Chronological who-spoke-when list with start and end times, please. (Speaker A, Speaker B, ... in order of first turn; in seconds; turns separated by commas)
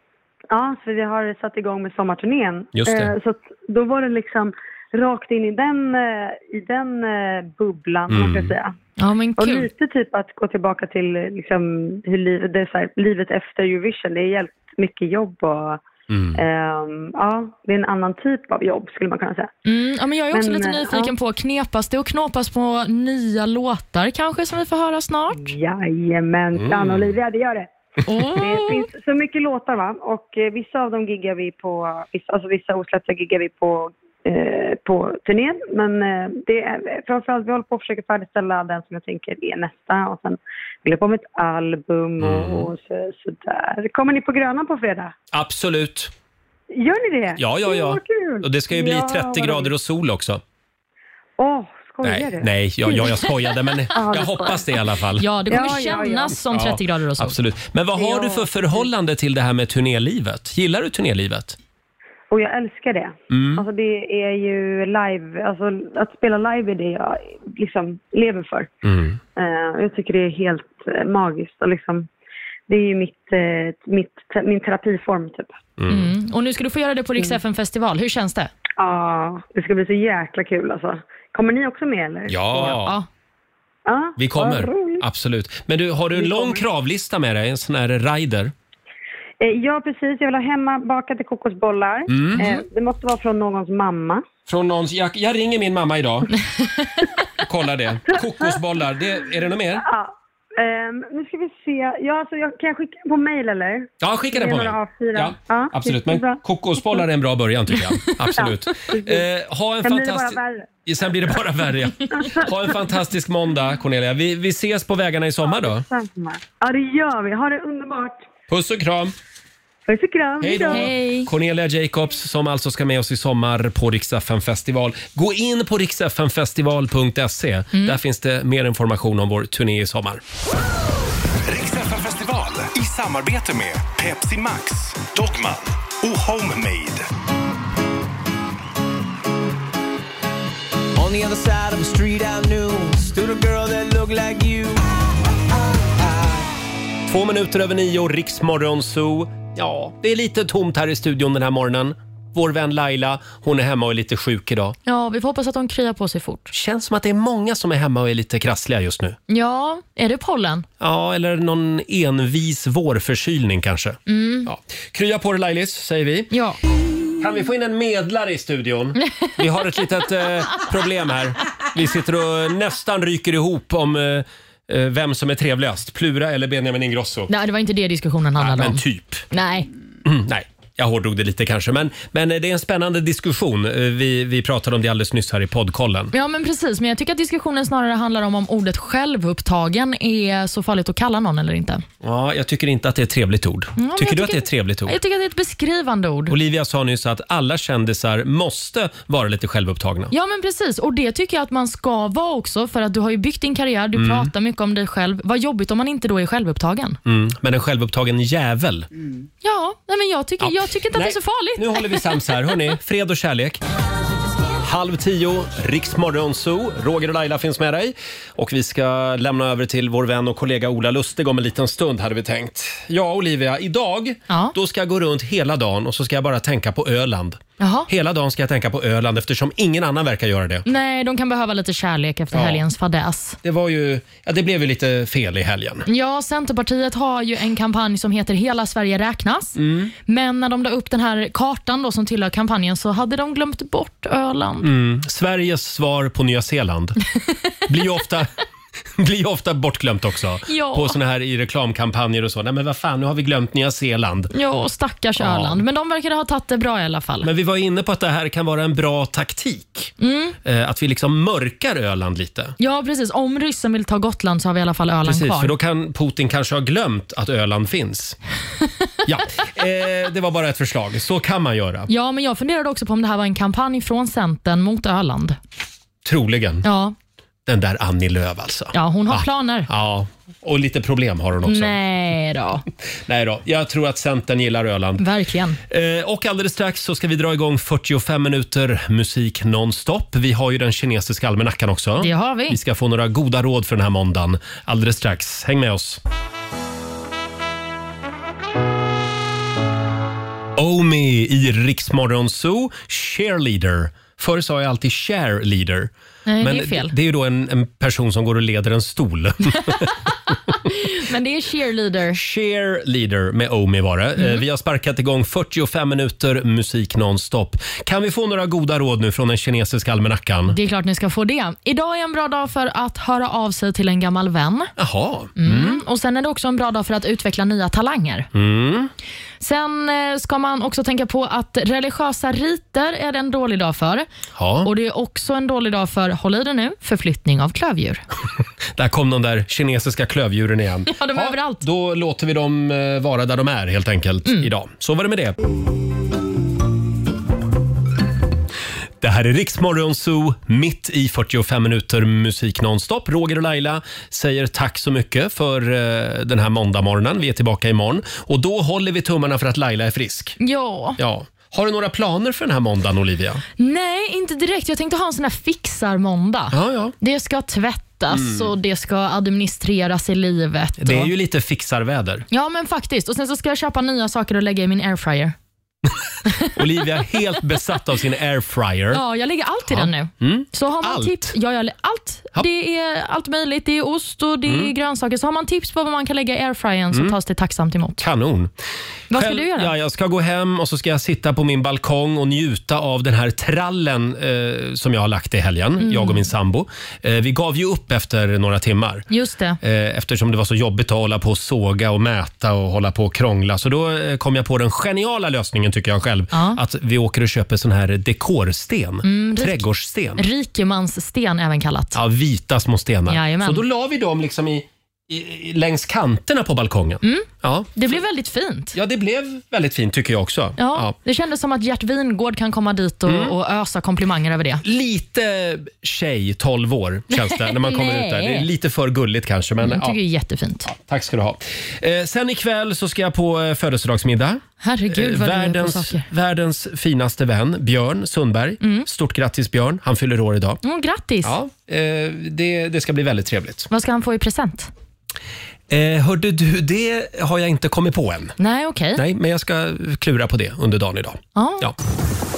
Speaker A: 0.5-8.8, Speaker B: 2.7-3.1, Speaker B: 8.1-8.5, Speaker C: 9.0-9.7, Speaker A: 9.4-15.8, Speaker B: 16.1-16.4, Speaker A: 16.4-19.5, Speaker C: 19.6-25.5, Speaker A: 20.3-21.1, Speaker A: 25.3-27.7, Speaker B: 26.6-27.1, Speaker C: 28.0-28.9, Speaker A: 28.3-45.1, Speaker B: 42.2-42.7, Speaker B: 45.3-46.1, Speaker A: 46.7-49.7, Speaker B: 47.4-50.4, Speaker A: 51.4-53.3, Speaker B: 52.0-55.8, Speaker A: 53.9-54.6, Speaker C: 55.2-57.4, Speaker A: 55.5-56.4, Speaker B: 56.5-61.6, Speaker A: 58.0-58.9, Speaker A: 62.3-68.7, Speaker B: 63.3-63.6, Speaker B: 68.8-69.2, Speaker A: 69.3-72.1, Speaker A: 72.7-75.5, Speaker B: 75.8-76.1, Speaker C: 75.9-78.5, Speaker A: 78.8-82.8, Speaker B: 82.3-83.0, Speaker C: 82.6-83.0, Speaker A: 83.8-85.0, Speaker B: 84.2-88.5, Speaker A: 86.1-86.6, Speaker A: 89.4-94.2, Speaker B: 92.1-92.5, Speaker B: 94.5-96.3, Speaker B: 97.4-99.8, Speaker A: 98.1-98.6, Speaker A: 99.8-107.0, Speaker B: 104.0-115.8, Speaker A: 108.3-109.2, Speaker A: 109.8-110.8, Speaker A: 112.2-112.5, Speaker A: 115.4-118.3, Speaker B: 118.5-119.1, Speaker A: 119.9-120.8, Speaker B: 120.4-130.2, Speaker C: 120.7-121.3, Speaker C: 127.7-128.0, Speaker D: 131.4-137.1, Speaker E: 140.9-144.8, Speaker E: 146.0-146.4, Speaker B: 147.1-154.8, Speaker C: 154.8-156.5, Speaker B: 156.5-159.2, Speaker C: 159.3-160.7, Speaker B: 160.8-166.3, Speaker C: 164.1-164.5, Speaker C: 166.3-166.6, Speaker B: 167.2-177.3, Speaker C: 177.3-179.7, Speaker B: 178.4-179.2, Speaker B: 180.0-186.1, Speaker C: 186.1-191.8, Speaker B: 192.0-194.9, Speaker C: 193.8-196.3, Speaker B: 196.3-200.1, Speaker C: 200.1-207.0, Speaker B: 203.9-204.3, Speaker B: 207.1-208.9, Speaker C: 209.4-212.4, Speaker B: 210.4-213.6, Speaker B: 214.6-230.7, Speaker C: 227.6-227.9, Speaker C: 230.7-233.4, Speaker B: 232.3-232.6, Speaker B: 233.4-235.9, Speaker C: 235.9-244.7, Speaker B: 239.6-239.9, Speaker B: 244.6-247.0, Speaker B: 247.7-248.3, Speaker B: 249.0-254.3, Speaker C: 250.5-250.9, Speaker C: 254.3-257.3, Speaker B: 255.2-255.6, Speaker B: 257.2-259.9, Speaker C: 260.0-260.4, Speaker B: 260.4-262.5, Speaker C: 262.6-265.5, Speaker B: 265.0-268.2, Speaker B: 269.1-271.9, Speaker C: 271.9-275.4, Speaker B: 276.0-276.6, Speaker C: 276.6-276.9, Speaker B: 277.4-281.8, Speaker C: 278.7-279.7, Speaker C: 281.4-282.6, Speaker B: 283.1-285.0, Speaker C: 285.0-285.6, Speaker B: 285.7-296.0, Speaker C: 292.0-292.6, Speaker B: 300.6-310.3, Speaker C: 306.3-306.9, Speaker C: 310.5-312.2, Speaker B: 312.1-320.6, Speaker C: 314.2-314.4, Speaker C: 320.5-324.7, Speaker B: 324.8-325.8, Speaker C: 325.4-328.3, Speaker B: 328.3-328.9, Speaker C: 329.4-334.1, Speaker B: 334.4-334.7, Speaker C: 334.6-338.0, Speaker B: 338.8-345.4, Speaker C: 340.9-341.6, Speaker B: 349.0-360.4, Speaker C: 360.4-361.0, Speaker B: 361.0-363.4, Speaker C: 363.6-371.1, Speaker B: 366.5-366.9, Speaker B: 368.1-368.5, Speaker B: 370.8-372.2, Speaker C: 372.3-375.3, Speaker C: 376.3-376.5, Speaker B: 376.5-379.0, Speaker C: 378.9-388.0, Speaker B: 379.7-381.3, Speaker B: 384.4-384.7, Speaker B: 388.0-388.5, Speaker C: 389.1-389.7, Speaker B: 389.1-399.1, Speaker C: 395.8-396.3, Speaker C: 399.1-399.6, Speaker B: 399.6-410.2, Speaker C: 406.3-406.6, Speaker C: 409.0-409.6, Speaker C: 410.2-412.0, Speaker B: 411.9-417.9, Speaker C: 413.1-413.6, Speaker C: 417.0-418.7, Speaker B: 418.7-420.9, Speaker C: 420.6-424.6, Speaker B: 423.1-423.3, Speaker B: 424.6-430.0, Speaker C: 427.1-428.4, Speaker C: 429.6-430.7, Speaker B: 430.7-440.6, Speaker C: 434.6-436.1, Speaker C: 438.6-438.9, Speaker C: 440.6-441.3, Speaker B: 441.2-443.7, Speaker C: 443.7-444.7, Speaker B: 445.7-448.3, Speaker C: 448.4-449.0, Speaker B: 448.9-451.7, Speaker C: 451.4-451.6